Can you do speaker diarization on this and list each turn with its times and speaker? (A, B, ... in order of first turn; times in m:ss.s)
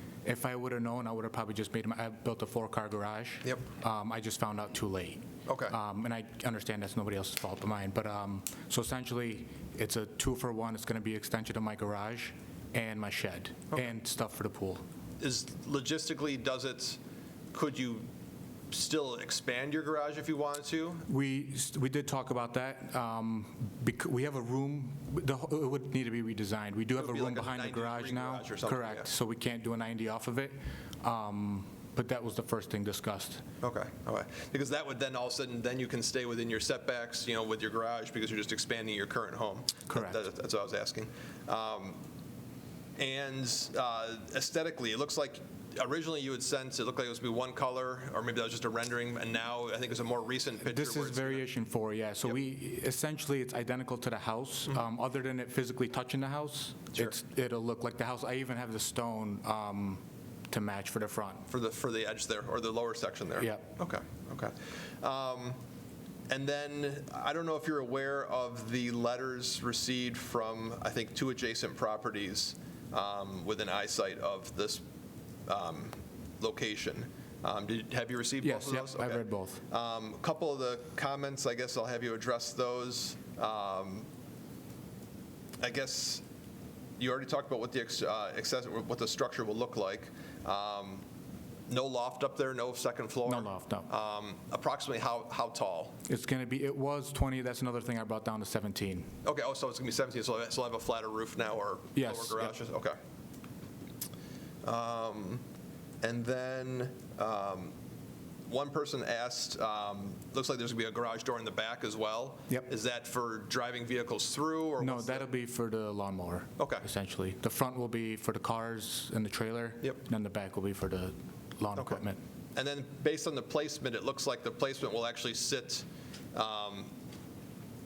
0:00.2-0:14.8 A
0:05.5-0:05.8 B
0:15.2-0:17.0 B
0:17.5-0:18.1 B
0:18.7-0:21.1 B
0:21.1-0:33.4 A
0:27.0-0:29.1 B
0:33.6-0:42.0 B
0:39.9-0:40.2 A
0:43.0-0:51.4 B
0:50.6-1:01.5 A
1:01.5-1:05.6 B
1:03.4-1:03.7 A
1:06.3-1:14.8 B
1:15.5-1:24.0 B
1:18.4-1:19.6 A
1:25.6-1:26.2 B
1:27.0-1:31.0 B
1:31.7-1:36.0 B
1:33.3-1:33.9 A
1:36.1-1:39.1 A
1:39.2-1:43.0 B
1:42.0-1:42.6 A
1:44.6-1:45.4 B
1:46.0-1:47.7 B
1:48.5-1:55.3 B
1:54.8-2:02.2 A
1:56.6-1:56.9 B
2:01.8-2:02.0 B
2:02.6-2:06.9 B